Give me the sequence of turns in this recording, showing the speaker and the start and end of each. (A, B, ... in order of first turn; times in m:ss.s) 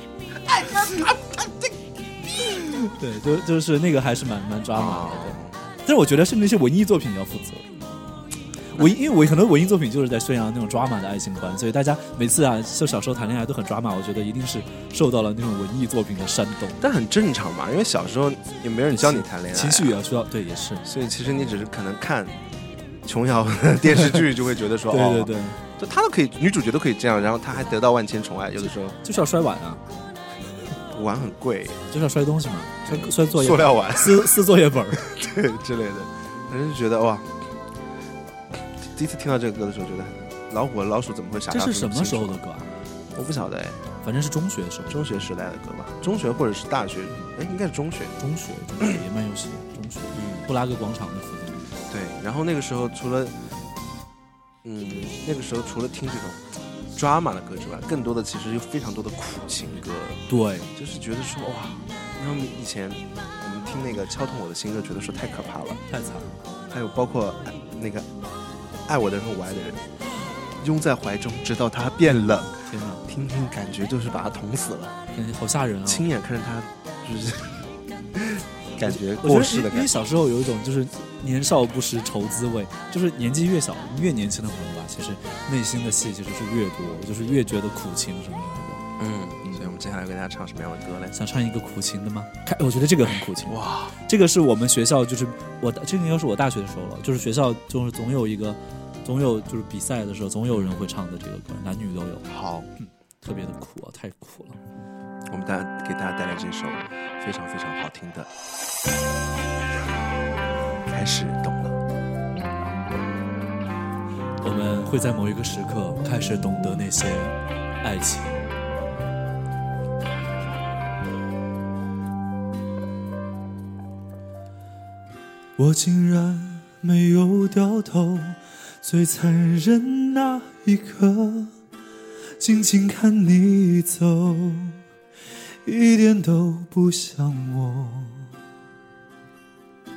0:00.4-0:01.7 A
0:02.4-0:07.7 B
0:04.7-0:05.6 A
0:08.7-0:16.8 B
0:16.8-0:20.0 A
0:18.9-0:20.9 B
0:20.8-0:22.4 A
0:23.0-0:29.0 A
0:24.9-0:25.6 B
0:29.0-0:29.8 B
0:30.9-0:31.8 A
0:31.9-0:35.0 B
0:32.8-0:34.4 A
0:35.0-0:37.3 A
0:38.8-0:42.4 A
0:41.5-0:42.7 B
0:43.1-0:43.8 A
0:44.0-0:45.0 B
0:44.9-0:48.2 A
0:48.2-0:51.7 B
0:50.2-0:50.5 A
0:51.9-0:53.4 A
0:54.6-1:05.8 A
1:00.3-1:00.7 B
1:05.9-1:06.4 B
1:06.7-1:08.1 A
1:08.9-1:09.8 A
1:10.6-1:12.5 A
1:12.0-1:13.0 B
1:13.1-1:15.0 A
1:15.2-1:16.1 B
1:15.9-1:19.9 A
1:18.8-1:28.8 B
1:29.0-1:31.2 A
1:29.4-1:29.8 B
1:31.1-1:42.2 B
1:33.2-1:34.0 A
1:40.5-1:40.9 A
1:42.3-1:42.7 A
1:42.8-1:44.6 B
1:45.3-1:48.3 A
1:50.9-1:51.8 A
1:54.4-1:58.5 B
2:05.6-2:11.5 B
2:12.4-2:14.8 B
2:15.6-2:18.3 B